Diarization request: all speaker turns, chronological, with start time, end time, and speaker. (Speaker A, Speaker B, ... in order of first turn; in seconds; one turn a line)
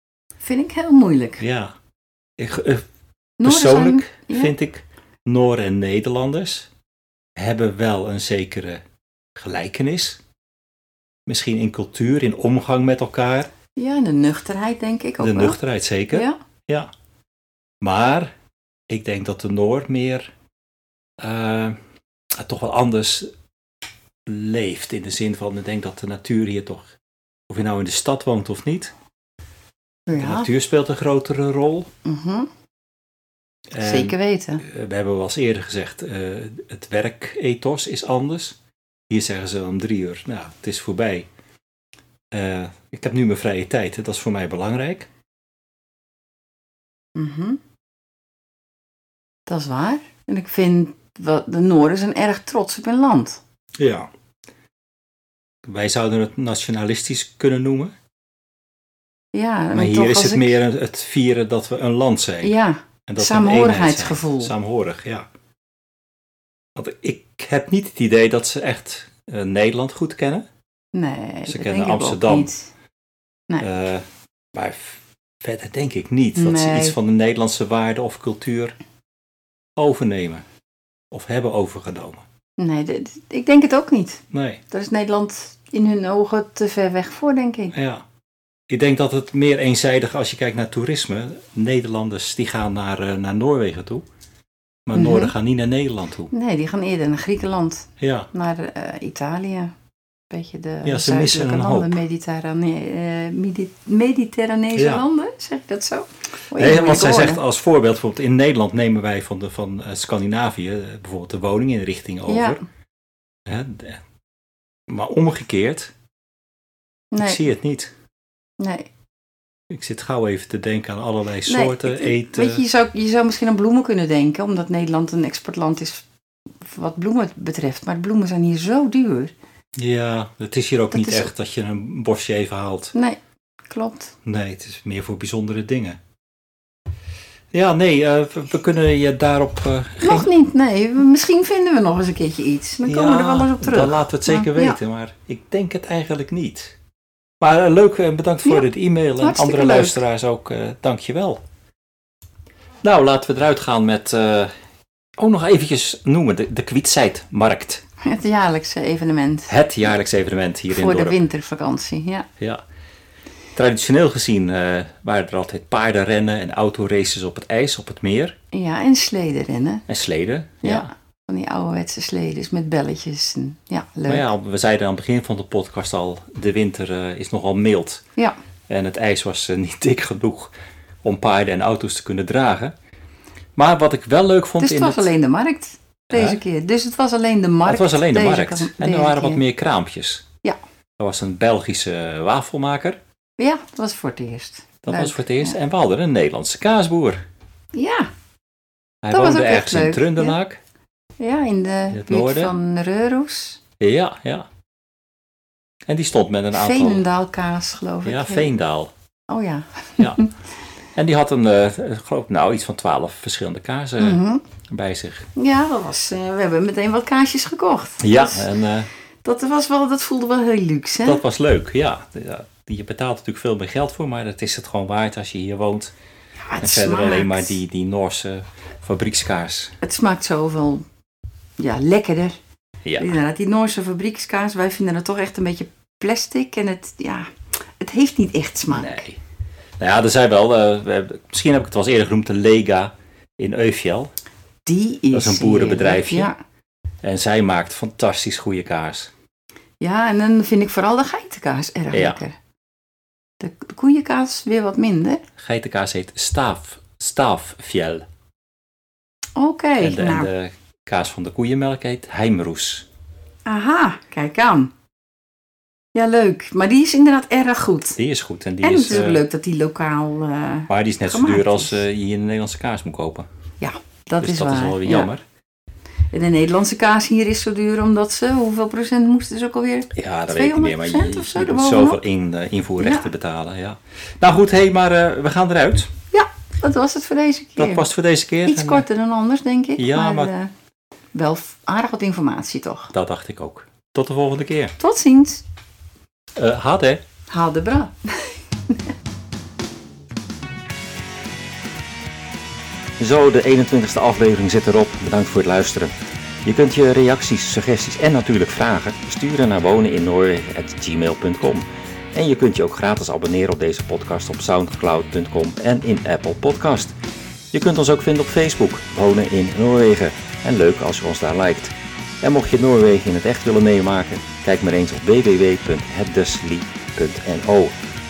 Speaker A: 0.4-1.4
Speaker B: 1.4-1.7
Speaker B: 2.4-2.8
Speaker A: 3.4-4.5
Speaker B: 3.4-6.7
Speaker B: 7.3-8.8
Speaker B: 9.3-10.2
Speaker B: 11.2-13.5
Speaker A: 13.8-15.6
Speaker B: 15.2-16.9
Speaker A: 16.1-16.4
Speaker B: 17.8-18.3
Speaker B: 18.9-20.3
Speaker B: 21.2-21.7
Speaker B: 22.3-23.3
Speaker B: 24.2-26.9
Speaker B: 27.5-28.9
Speaker A: 30.1-30.5
Speaker B: 30.1-31.9
Speaker A: 32.0-32.5
Speaker B: 33.7-38.6
Speaker A: 33.8-34.6
Speaker B: 39.1-41.3
Speaker B: 42.3-45.1
Speaker A: 47.1-47.6
Speaker A: 49.5-53.4
Speaker B: 53.8-54.1
Speaker B: 55.6-57.9
Speaker A: 59.3-60.6
Speaker B: 59.7-62.5
Speaker A: 62.4-64.5
Speaker B: 63.1-65.2
Speaker B: 66.7-70.5
Speaker A: 70.9-72.7
Speaker B: 71.5-72.5
Speaker B: 73.6-78.8
Speaker A: 76.3-77.0
Speaker B: 79.8-80.4
Speaker B: 81.1-82.2
Speaker A: 82.6-87.7
Speaker B: 84.3-84.6
Speaker B: 87.7-88.0
Speaker B: 88.7-94.0
Speaker B: 94.9-96.3
Speaker A: 95.0-95.3
Speaker A: 96.3-99.7
Speaker B: 98.0-98.3
Speaker A: 100.3-107.4
Speaker B: 100.8-102.0
Speaker B: 104.8-105.0
Speaker B: 106.5-112.6
Speaker A: 112.3-112.6
Speaker B: 113.5-114.0
Speaker B: 114.9-115.9
Speaker A: 117.1-117.4
Speaker B: 117.2-117.9
Speaker A: 118.6-118.8
Speaker B: 119.7-122.6
Speaker A: 121.5-126.0
Speaker A: 126.6-129.3
Speaker B: 129.8-132.9
Speaker A: 130.9-131.3
Speaker A: 132.9-134.1
Speaker B: 134.2-136.0
Speaker B: 137.5-140.3
Speaker A: 140.0-144.8
Speaker B: 142.8-146.7
Speaker B: 147.4-151.4
Speaker A: 149.2-150.0
Speaker B: 152.8-154.5
Speaker B: 155.2-157.8
Speaker A: 158.0-159.5
Speaker B: 159.5-161.2
Speaker A: 160.7-162.3
Speaker B: 163.5-168.3
Speaker A: 168.5-169.8
Speaker B: 169.9-170.9
Speaker A: 170.6-174.3
Speaker B: 174.1-178.0
Speaker B: 178.7-180.5
Speaker B: 181.0-182.7
Speaker B: 183.6-185.1
Speaker A: 184.6-189.4
Speaker B: 186.1-186.4
Speaker B: 187.7-190.2
Speaker B: 191.0-193.0
Speaker A: 193.4-195.5
Speaker B: 194.8-197.2
Speaker A: 197.7-198.1
Speaker B: 199.0-200.6
Speaker A: 199.1-200.3
Speaker A: 201.2-203.6
Speaker B: 201.9-202.5
Speaker B: 203.8-204.5
Speaker B: 205.9-207.0
Speaker A: 206.5-208.5
Speaker B: 208.0-208.9
Speaker A: 209.3-210.3
Speaker B: 210.9-215.3
Speaker A: 214.0-214.4
Speaker A: 215.3-218.5
Speaker B: 218.0-218.9
Speaker A: 219.2-221.2
Speaker B: 221.0-225.9
Speaker A: 226.4-227.6
Speaker B: 226.6-229.7
Speaker A: 229.8-230.8
Speaker A: 231.6-232.4
Speaker B: 232.8-233.1
Speaker A: 233.0-237.3
Speaker A: 237.8-239.0
Speaker B: 238.7-239.2
Speaker B: 239.8-244.1
Speaker A: 244.7-246.4
Speaker B: 245.1-246.3
Speaker B: 247.0-249.1
Speaker A: 249.8-252.3
Speaker B: 251.9-252.2
Speaker A: 253.4-255.2
Speaker B: 255.4-258.1
Speaker A: 259.4-260.3
Speaker B: 259.8-262.9
Speaker A: 263.5-264.7
Speaker A: 265.9-268.0
Speaker B: 268.0-269.2
Speaker A: 268.6-271.8
Speaker B: 270.7-273.3
Speaker A: 273.6-275.1
Speaker B: 274.2-275.2
Speaker A: 276.1-282.0
Speaker B: 279.9-285.9
Speaker A: 282.8-283.1
Speaker A: 286.1-287.9
Speaker B: 287.6-288.9
Speaker A: 288.4-290.5
Speaker B: 289.8-290.3
Speaker A: 291.1-292.9
Speaker B: 292.9-294.7
Speaker A: 294.8-295.4
Speaker B: 296.4-297.0
Speaker A: 297.3-298.8
Speaker B: 303.0-305.9
Speaker B: 306.4-316.9
Speaker B: 317.5-327.7